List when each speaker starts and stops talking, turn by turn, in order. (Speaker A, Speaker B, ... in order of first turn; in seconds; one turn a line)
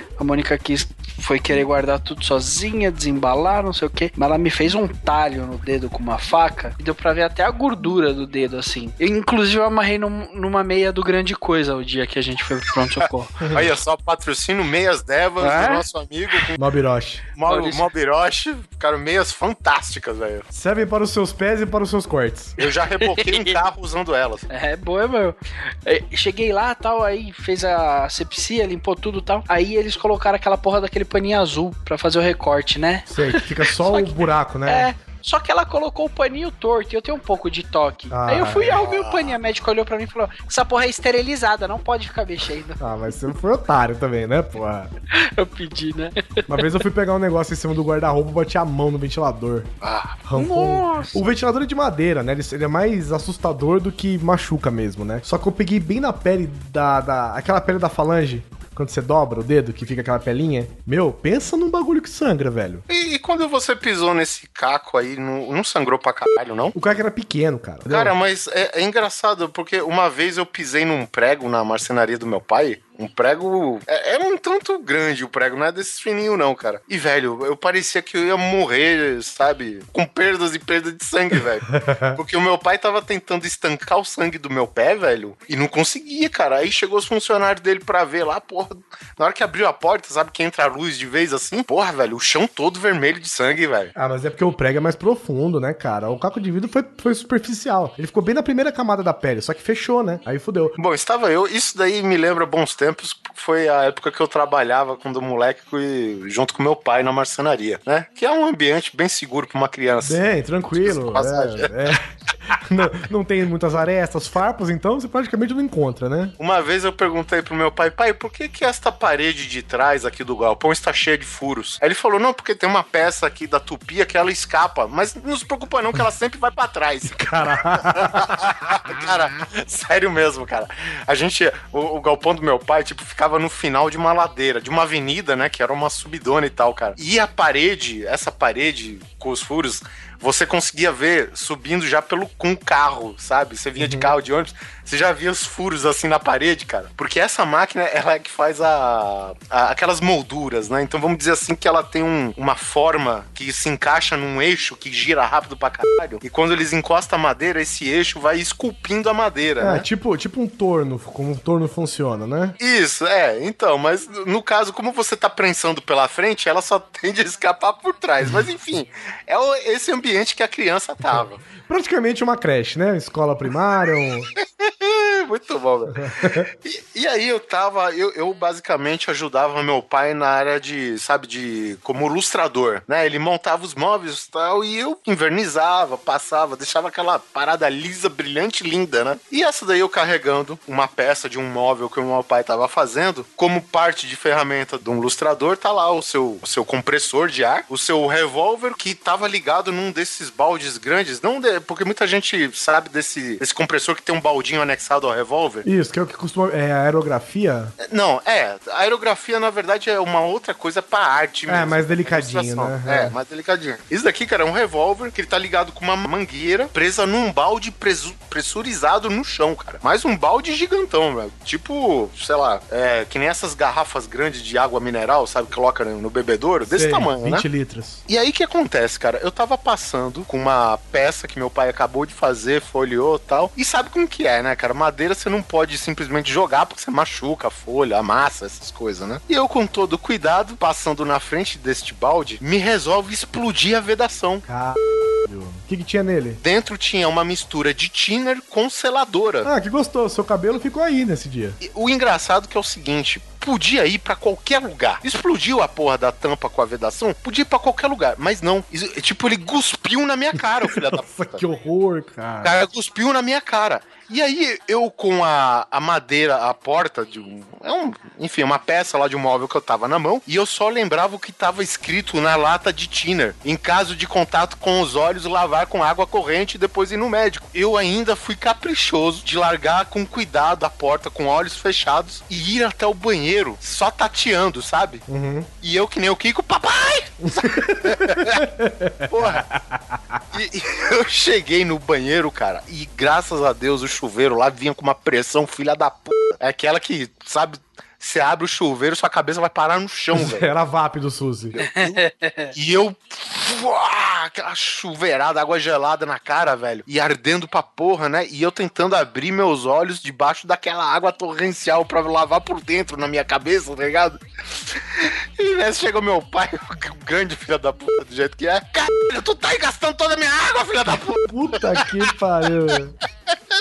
Speaker A: 0.2-13.4
Speaker B: 12.8-16.6
Speaker A: 15.4-15.8
Speaker C: 16.6-17.2
Speaker B: 17.3-20.4
Speaker A: 17.4-17.8
Speaker C: 20.5-22.5
Speaker B: 22.6-24.5
Speaker A: 23.1-23.5
Speaker A: 24.5-42.8
Speaker C: 33.1-34.9
Speaker C: 38.1-38.8
Speaker B: 38.7-39.4
Speaker C: 42.8-44.9
Speaker A: 45.1-46.7
Speaker C: 46.5-49.7
Speaker B: 49.8-50.2
Speaker C: 50.2-62.8
Speaker A: 50.4-51.3
Speaker B: 62.9-66.8
Speaker C: 66.7-68.1
Speaker B: 67.9-93.9
Speaker C: 81.7-82.2
Speaker C: 93.9-100.8
Speaker B: 100.8-110.2
Speaker C: 110.0-116.3
Speaker B: 110.7-111.9
Speaker B: 116.4-159.9
Speaker C: 127.0-128.4
Speaker C: 143.8-144.1
Speaker C: 159.6-162.6
Speaker B: 162.6-171.4
Speaker C: 171.0-174.3
Speaker B: 174.4-176.0
Speaker C: 175.9-176.5
Speaker B: 176.6-205.7
Speaker C: 205.6-207.7
Speaker B: 207.8-227.5
Speaker C: 211.5-213.1
Speaker C: 226.7-228.0
Speaker B: 228.1-244.4
Speaker C: 244.4-246.4
Speaker B: 246.4-249.5
Speaker C: 249.4-251.6
Speaker B: 251.6-261.4
Speaker C: 260.7-262.6
Speaker B: 262.4-285.0
Speaker C: 285.1-285.5
Speaker B: 285.6-288.4
Speaker C: 287.4-290.2
Speaker B: 289.1-289.4
Speaker B: 290.3-300.5
Speaker C: 300.1-301.6
Speaker B: 301.5-302.0
Speaker A: 301.7-302.5
Speaker B: 302.5-321.9
Speaker C: 321.3-322.9